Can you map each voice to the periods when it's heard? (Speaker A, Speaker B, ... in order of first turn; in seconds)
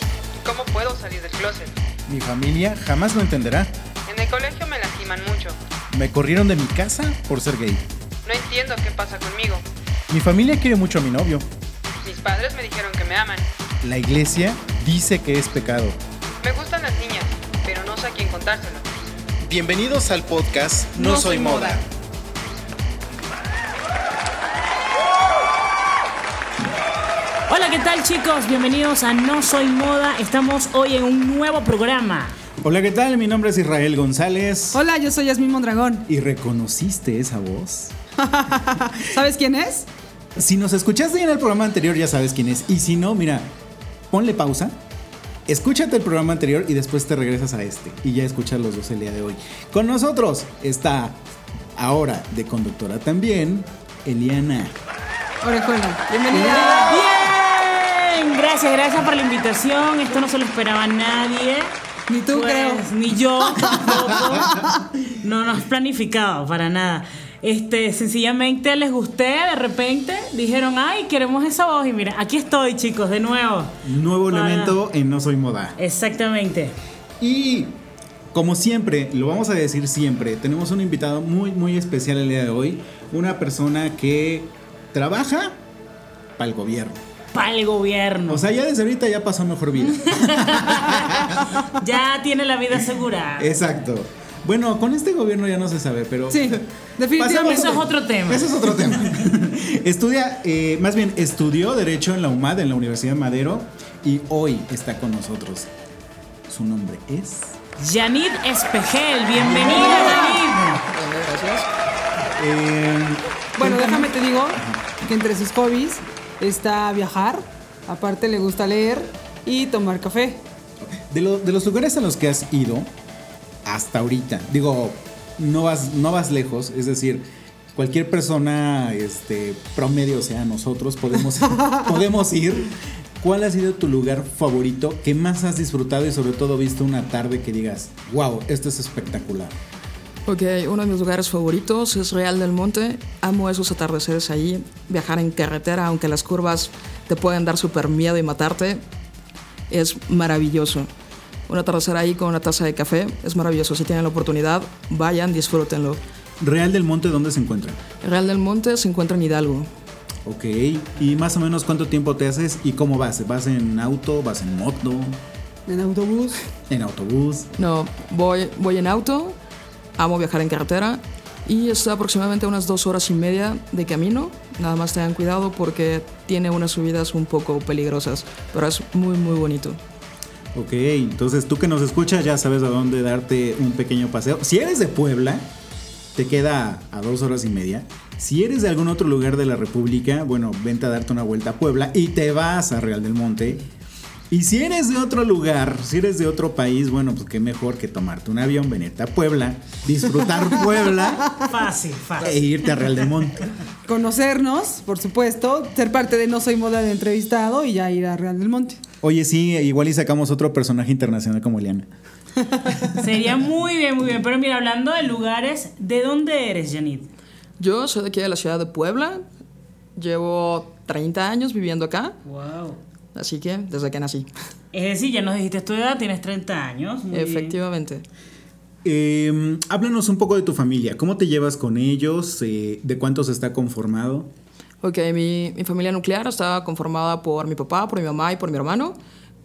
Speaker A: 0.4-1.7, 4.1-5.6, 8.3-9.6, 12.0-13.5, 16.4-18.9, 21.0-21.8
Speaker B: 2.1-3.7, 5.9-7.9, 10.1-11.5, 13.8-16.0, 19.5-21.9, 32.6-34.8, 36.1-38.0, 40.4-43.5, 44.1-44.8, 45.5-51.2, 51.8-54.8, 73.8-75.8, 77.2-77.8, 78.3-85.6, 86.4-87.0, 88.3-91.5, 93.4-96.6, 97.2-105.7, 106.5-107.6, 109.3-110.2, 112.4-114.8, 120.9-122.9, 123.7-139.6, 156.4-157.8, 160.2-165.2, 166.7-167.5, 180.5-185.5, 186.2-193.7, 194.3-201.3, 202.2-203.4, 209.0-211.9, 228.8-234.3
Speaker C: 27.5-32.4, 56.8-61.7, 62.3-73.7, 74.3-74.8, 75.8-76.7, 87.3-88.4, 90.2-93.6, 97.3-99.0, 107.8-110.8, 201.4-202.9, 213.0-217.1, 222.3-222.8, 224.7-227.6
Speaker D: 34.7-36.1, 38.2-39.9, 55.4-56.9, 62.1-62.8, 96.3-97.8, 113.6-120.4, 165.7-166.4, 203.9-208.8
Speaker E: 56.1-57.0, 110.9-111.7, 140.3-148.8, 149.7-150.9, 151.5-156.0, 158.0-159.7, 167.5-169.4, 170.0-179.8, 217.6-219.2, 220.0-222.2, 223.2-224.3, 227.1-228.0, 234.8-239.0